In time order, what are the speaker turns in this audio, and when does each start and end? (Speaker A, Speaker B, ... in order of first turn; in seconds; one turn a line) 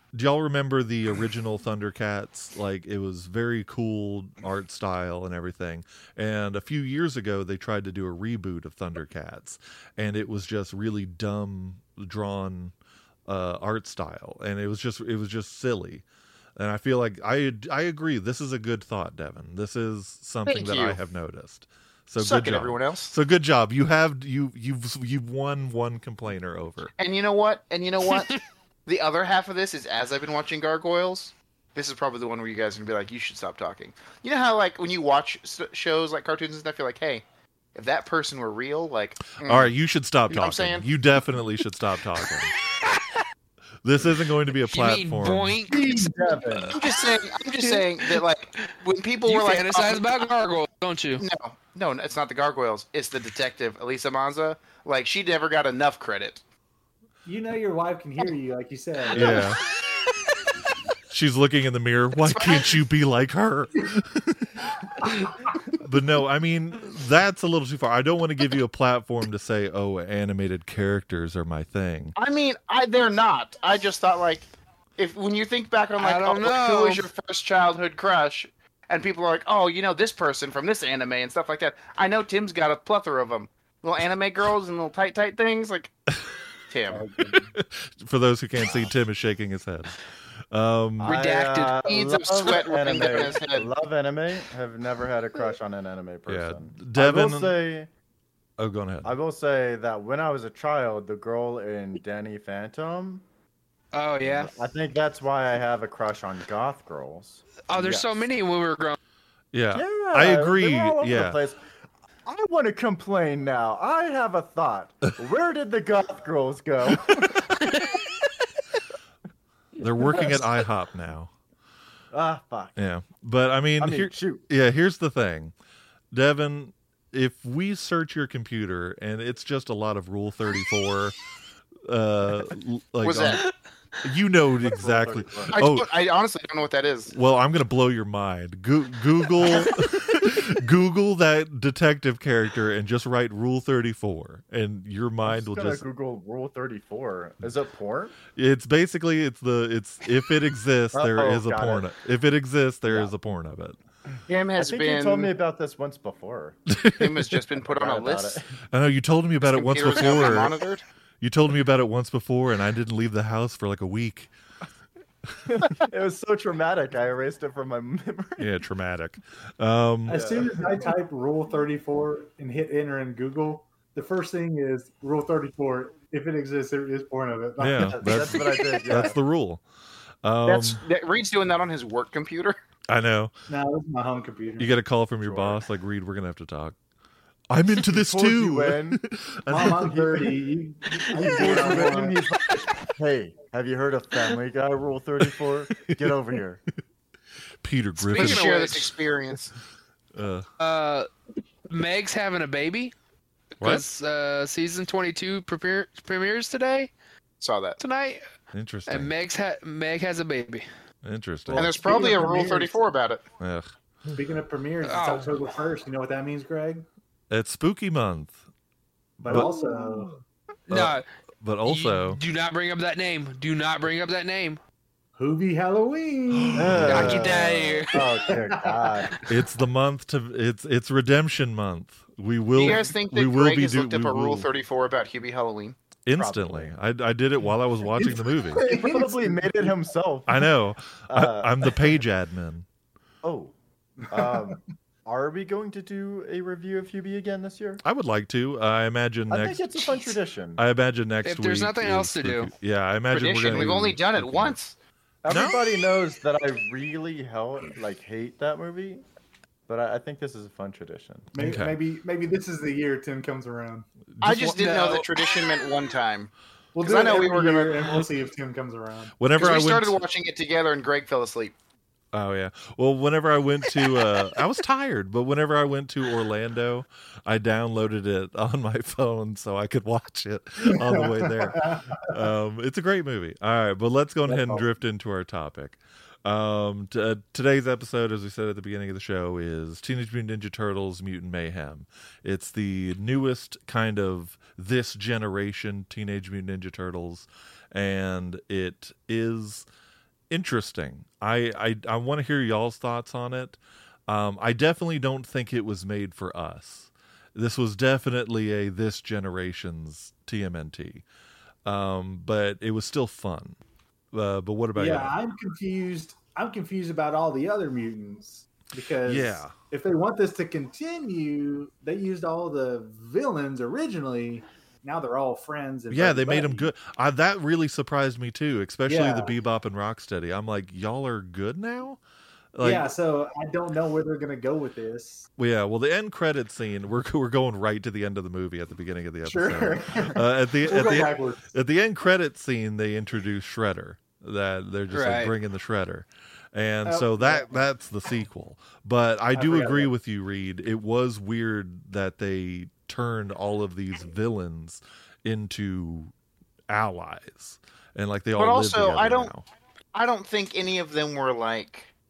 Speaker A: 0.1-12.7
Speaker A: 13.3-16.0
Speaker A: 16.6-26.9
Speaker B: 20.5-21.0
Speaker B: 22.2-23.1
Speaker B: 27.0-37.2
Speaker B: 37.8-39.7
Speaker A: 39.4-42.5
Speaker B: 40.3-40.9
Speaker C: 42.8-43.2
Speaker A: 43.8-45.6
Speaker C: 44.7-46.1
Speaker D: 45.7-46.8
Speaker C: 46.6-48.2
Speaker B: 46.7-50.2
Speaker C: 49.2-51.2
Speaker B: 51.2-56.4
Speaker D: 57.2-59.4
Speaker A: 59.1-59.6
Speaker A: 61.1-72.2
Speaker B: 62.2-62.8
Speaker B: 72.2-85.9
Speaker C: 76.0-77.1
Speaker B: 86.7-87.1
Speaker D: 86.9-87.5
Speaker A: 87.5-91.2
Speaker E: 91.0-97.9
Speaker C: 91.0-91.9
Speaker B: 91.8-93.7
Speaker A: 96.3-97.5
Speaker A: 98.6-99.1
Speaker E: 99.0-103.2
Speaker C: 103.9-104.5
Speaker E: 104.2-108.3
Speaker C: 107.7-109.0
Speaker A: 109.5-111.4
Speaker E: 109.7-111.6
Speaker E: 112.3-117.5
Speaker C: 117.6-118.0
Speaker A: 119.8-121.3
Speaker E: 122.1-122.8
Speaker A: 122.8-125.5
Speaker E: 123.8-124.4
Speaker A: 126.1-131.2
Speaker A: 131.9-133.4
Speaker B: 133.0-133.4
Speaker A: 134.0-135.9
Speaker E: 134.6-135.6
Speaker B: 135.5-137.1
Speaker A: 137.1-145.8
Speaker E: 145.2-148.2
Speaker A: 148.3-153.8
Speaker E: 150.9-151.9
Speaker E: 152.9-153.1
Speaker B: 154.3-155.3
Speaker E: 154.6-156.6
Speaker A: 156.7-157.2
Speaker B: 157.0-158.4
Speaker E: 157.7-158.5
Speaker A: 158.7-160.6
Speaker B: 159.4-160.8
Speaker A: 161.2-164.3
Speaker E: 165.5-168.5
Speaker A: 168.4-170.3
Speaker D: 170.1-178.5
Speaker E: 170.1-170.9
Speaker A: 177.6-179.6
Speaker E: 177.9-179.2
Speaker A: 180.2-180.8
Speaker B: 180.4-182.6
Speaker A: 182.9-183.3
Speaker D: 183.5-184.8
Speaker A: 184.6-186.8
Speaker E: 185.2-185.6
Speaker A: 187.5-190.0
Speaker E: 187.8-189.0
Speaker D: 189.5-192.2
Speaker E: 189.6-190.3
Speaker E: 191.1-196.6
Speaker A: 197.6-198.7
Speaker B: 198.0-199.5
Speaker C: 198.1-198.9
Speaker A: 200.2-200.5
Speaker C: 200.6-201.1
Speaker C: 201.7-202.9
Speaker C: 203.6-206.9
Speaker A: 203.6-203.9
Speaker B: 207.4-207.8
Speaker C: 207.8-208.2
Speaker A: 208.5-209.1
Speaker C: 208.9-210.7
Speaker A: 211.0-211.7
Speaker D: 211.5-212.8
Speaker B: 211.6-213.2
Speaker A: 213.4-214.2
Speaker D: 214.1-216.9
Speaker C: 214.8-215.3
Speaker A: 217.3-218.4
Speaker D: 219.2-220.2
Speaker E: 219.2-219.5
Speaker A: 219.3-219.5
Speaker C: 220.7-221.1
Speaker A: 220.7-222.2
Speaker C: 221.6-224.6
Speaker D: 225.2-227.3
Speaker A: 226.4-227.3
Speaker E: 226.5-229.2
Speaker C: 226.9-228.1
Speaker D: 228.1-228.9
Speaker A: 229.3-234.5
Speaker B: 232.5-235.8
Speaker A: 236.1-238.7
Speaker E: 236.1-236.8
Speaker D: 238.0-239.8
Speaker E: 238.6-240.5
Speaker A: 240.3-242.7
Speaker E: 241.1-242.0
Speaker E: 243.2-243.5
Speaker E: 244.1-247.8
Speaker A: 247.8-254.6
Speaker E: 249.3-250.6
Speaker C: 251.2-252.5
Speaker B: 253.1-254.8
Speaker E: 255.2-259.0
Speaker A: 255.3-255.6
Speaker E: 259.7-261.3
Speaker D: 261.3-263.9
Speaker A: 261.4-261.8
Speaker A: 264.2-264.8
Speaker B: 264.2-267.9
Speaker D: 266.8-269.1
Speaker A: 269.2-270.0
Speaker B: 269.4-271.6
Speaker A: 272.1-299.7
Speaker D: 280.6-282.1
Speaker D: 284.3-284.6
Speaker A: 300.3-311.0
Speaker A: 311.6-313.6
Speaker A: 314.1-315.1
Speaker D: 314.8-326.7
Speaker A: 319.1-319.5
Speaker A: 325.9-332.0
Speaker D: 328.9-329.4
Speaker A: 332.5-332.9
Speaker D: 332.6-335.3
Speaker A: 335.4-356.1
Speaker D: 339.2-341.5
Speaker C: 344.9-345.3
Speaker D: 346.9-347.6
Speaker D: 349.3-349.9
Speaker A: 356.7-359.4
Speaker B: 358.4-359.3
Speaker B: 359.9-361.9